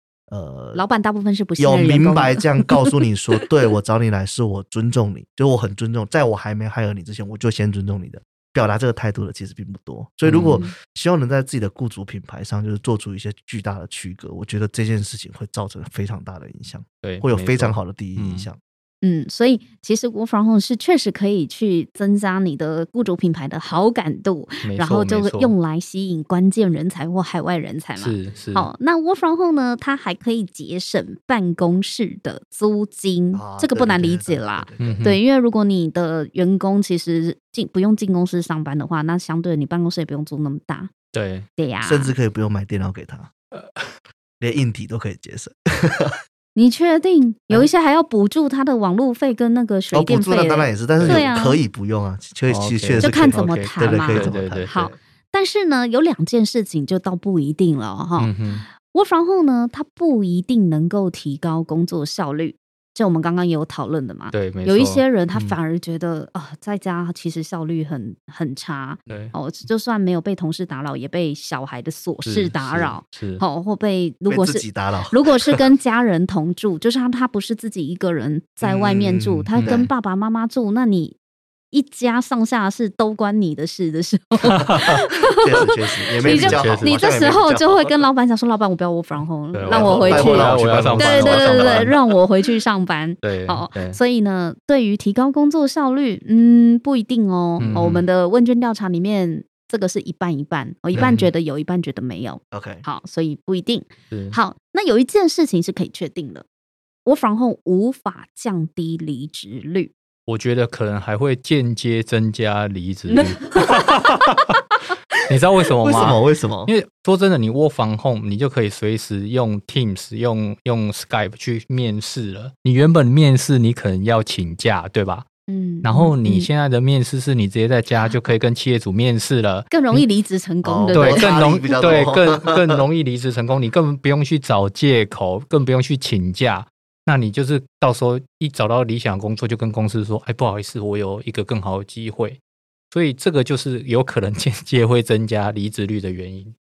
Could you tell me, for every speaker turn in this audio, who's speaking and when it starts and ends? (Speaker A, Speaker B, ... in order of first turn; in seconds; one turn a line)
Speaker A: 0.3-0.8
Speaker B: 0.7-2.6
Speaker A: 1.6-18.6
Speaker C: 10.2-10.6
Speaker C: 17.0-18.5
Speaker B: 19.0-40.9
Speaker C: 24.6-25.5
Speaker C: 28.0-28.7
Speaker A: 33.3-35.0
Speaker C: 34.8-35.2
Speaker C: 41.1-41.5
Speaker B: 41.6-42.1
Speaker A: 41.8-43.3
Speaker C: 43.5-43.9
Speaker A: 44.4-46.2
Speaker B: 46.5-51.6
Speaker A: 49.9-54.9
Speaker C: 51.0-51.2
Speaker C: 52.5-54.8
Speaker B: 53.0-81.2
Speaker C: 58.2-58.6
Speaker C: 64.3-65.6
Speaker C: 69.1-69.3
Speaker C: 72.2-73.4
Speaker A: 74.3-75.6
Speaker A: 78.6-79.9
Speaker C: 79.5-79.9
Speaker B: 81.7-85.7
Speaker C: 84.5-84.9
Speaker A: 85.4-88.0
Speaker B: 86.2-106.4
Speaker C: 86.2-87.0
Speaker C: 89.5-92.0
Speaker A: 89.7-91.9
Speaker C: 93.2-94.0
Speaker C: 97.6-98.0
Speaker A: 100.9-101.2
Speaker C: 100.9-101.3
Speaker A: 102.5-102.8
Speaker C: 104.1-104.4
Speaker B: 107.0-109.9
Speaker C: 110.3-114.4
Speaker B: 113.1-114.0
Speaker C: 115.3-125.2
Speaker A: 115.8-116.7
Speaker B: 125.5-126.5
Speaker C: 125.8-130.1
Speaker B: 129.7-131.4
Speaker A: 130.6-132.8
Speaker C: 130.9-146.5